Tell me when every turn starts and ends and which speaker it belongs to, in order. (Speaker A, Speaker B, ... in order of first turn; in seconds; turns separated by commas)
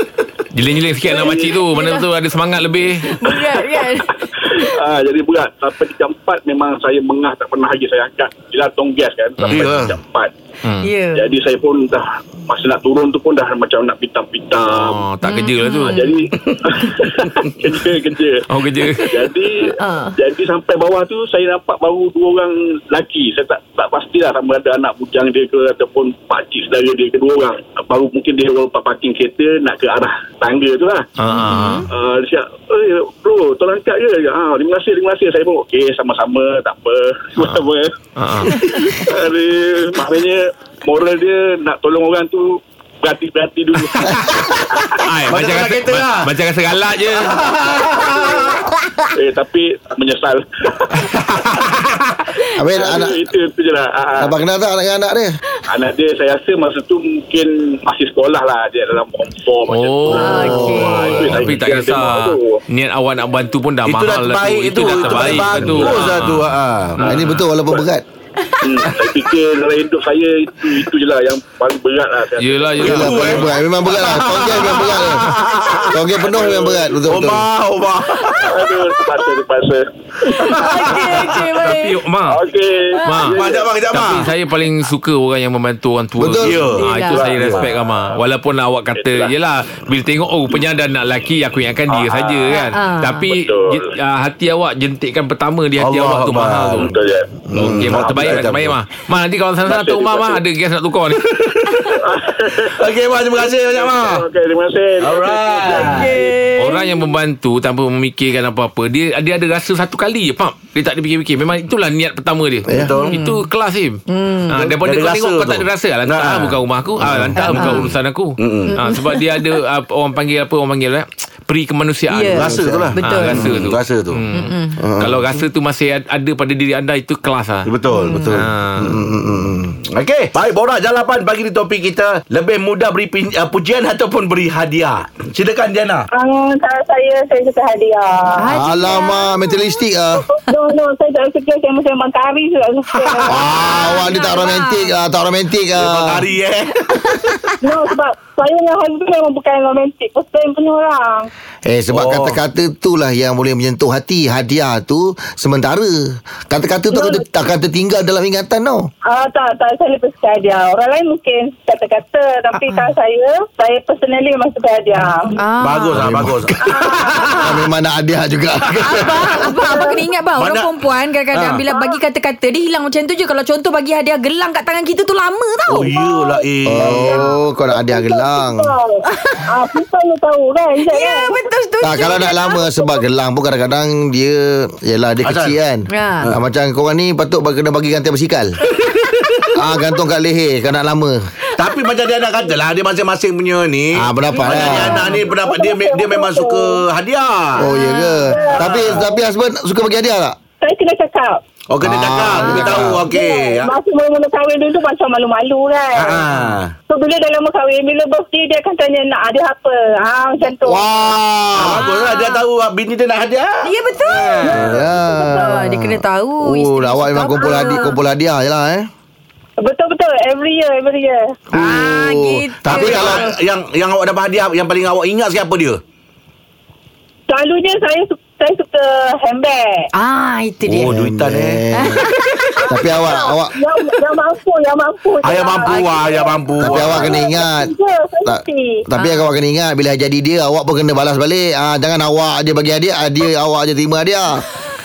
Speaker A: 0.5-3.2, Speaker B: 1.1-2.1, Speaker C: 1.2-1.6, Speaker B: 3.0-4.1, Speaker C: 3.2-3.8, Speaker C: 4.4-10.3, Speaker A: 9.4-9.9, Speaker D: 9.5-10.0, Speaker B: 10.8-11.3, Speaker C: 11.1-15.0, Speaker A: 14.7-16.1, Speaker B: 15.2-16.9, Speaker C: 15.9-31.1, Speaker A: 18.5-19.3, Speaker B: 19.6-20.2, Speaker A: 31.2-31.9, Speaker B: 31.3-31.9, Speaker C: 31.9-44.9, Speaker A: 37.4-37.6, Speaker A: 38.2-38.6, Speaker A: 43.9-44.2, Speaker E: 44.0-44.5, Speaker A: 45.0-47.4, Speaker D: 45.3-46.3, Speaker D: 47.0-48.6, Speaker C: 49.2-51.0, Speaker A: 51.1-51.5, Speaker E: 52.6-53.2, Speaker C: 52.7-54.4, Speaker E: 54.2-55.3, Speaker C: 55.7-62.6, Speaker A: 59.7-67.5, Speaker B: 60.1-61.3, Speaker E: 60.3-61.6, Speaker D: 63.9-67.1, Speaker E: 67.0-68.0, Speaker C: 68.6-73.6, Speaker A: 72.4-73.5, Speaker E: 72.8-75.3, Speaker D: 72.9-76.3, Speaker E: 75.9-77.5, Speaker C: 76.3-76.9, Speaker D: 77.0-78.7, Speaker C: 78.4-83.7, Speaker B: 80.3-82.0, Speaker D: 80.5-81.4, Speaker A: 81.5-82.4, Speaker B: 82.9-83.3, Speaker A: 83.1-96.9, Speaker D: 83.3-84.3, Speaker E: 86.2-86.7, Speaker D: 86.4-87.7, Speaker B: 86.7-87.7, Speaker C: 87.1-88.1, Speaker C: 88.9-89.3, Speaker C: 91.9-92.6, Speaker B: 92.5-93.4, Speaker C: 93.3-93.8, Speaker D: 95.8-97.0, Speaker C: 96.8-97.3, Speaker E: 97.5-98.0, Speaker D: 97.5-98.8, Speaker A: 97.6-101.3, Speaker D: 99.7-100.4, Speaker D: 101.4-104.3, Speaker C: 102.0-102.7, Speaker C: 103.3-106.3, Speaker D: 105.0-106.2, Speaker B: 105.6-107.1, Speaker A: 106.6-127.7, Speaker E: 112.7-112.9, Speaker D: 112.7-113.2, Speaker B: 113.0-113.5, Speaker B: 114.1-114.6, Speaker D: 114.6-116.6, Speaker E: 117.0-117.5, Speaker B: 117.4-117.9, Speaker D: 117.5-117.9, Speaker D: 118.4-118.8, Speaker B: 118.7-119.6, Speaker B: 122.1-123.4, Speaker D: 122.3-124.2, Speaker E: 122.4-123.6, Speaker B: 124.3-124.8, Speaker E: 124.8-125.2, Speaker D: 127.7-128.3, Speaker B: 127.9-128.4, Speaker E: 128.1-129.8, Speaker A: 128.3-129.0, Speaker D: 129.9-136.1, Speaker F: 136.1-138.6, Speaker B: 138.4-139.8, Speaker E: 138.5-140.2, Speaker F: 140.2-143.5, Speaker D: 142.9-143.5, Speaker E: 143.3-146.3, Speaker B: 143.6-144.9, Speaker D: 145.8-147.5, Speaker B: 146.9-147.4, Speaker F: 147.6-151.3, Speaker E: 151.7-158.9, Speaker D: 151.9-152.4, Speaker F: 156.9-157.2, Speaker F: 159.1-165.4, Speaker B: 162.6-162.9, Speaker B: 165.4-166.2, Speaker D: 165.6-167.6, Speaker E: 165.9-166.6, Speaker F: 166.6-167.3, Speaker E: 167.4-169.6, Speaker D: 168.8-169.4, Speaker B: 168.8-176.0, Speaker F: 169.6-170.1, Speaker D: 170.3-171.7, Speaker F: 171.7-172.0, Speaker D: 175.7-177.2, Speaker F: 175.9-179.0, Speaker E: 176.7-178.7, Speaker B: 179.1-179.4, Speaker F: 179.5-181.4, Speaker B: 180.8-182.7, Speaker E: 181.8-188.5, Speaker D: 185.2-185.6, Speaker B: 185.9-186.3, Speaker D: 189.0-189.5, Speaker E: 189.5-191.2, Speaker D: 191.5-197.7, Speaker E: 194.0-195.1, Speaker B: 194.3-195.3, Speaker F: 195.3-196.8, Speaker E: 197.6-200.4, Speaker B: 197.7-198.3, Speaker F: 198.3-199.2, Speaker D: 198.5-199.1, Speaker F: 200.6-201.4, Speaker D: 201.7-203.8, Speaker E: 201.8-203.0, Speaker B: 202.4-202.7, Speaker F: 202.7-206.2, Speaker D: 205.9-206.8, Speaker F: 206.9-210.9, Speaker E: 210.6-211.9, Speaker D: 211.5-214.9, Speaker B: 211.7-212.4, Speaker B: 213.6-214.6, Speaker E: 214.5-218.9, Speaker F: 215.0-215.5, Speaker B: 215.3-217.9, Speaker F: 217.4-217.9, Speaker F: 219.6-221.4, Speaker E: 221.5-223.2, Speaker B: 221.5-223.4, Speaker D: 222.7-225.8, Speaker F: 227.3-229.9, Speaker B: 229.9-231.0, Speaker D: 230.7-232.0, Speaker E: 230.9-232.1, Speaker B: 231.7-233.3, Speaker E: 232.7-233.6, Speaker F: 232.7-238.9, Speaker D: 235.2-237.3, Speaker B: 235.5-236.3, Speaker E: 236.6-237.7, Speaker E: 238.2-244.5, Speaker B: 238.9-239.3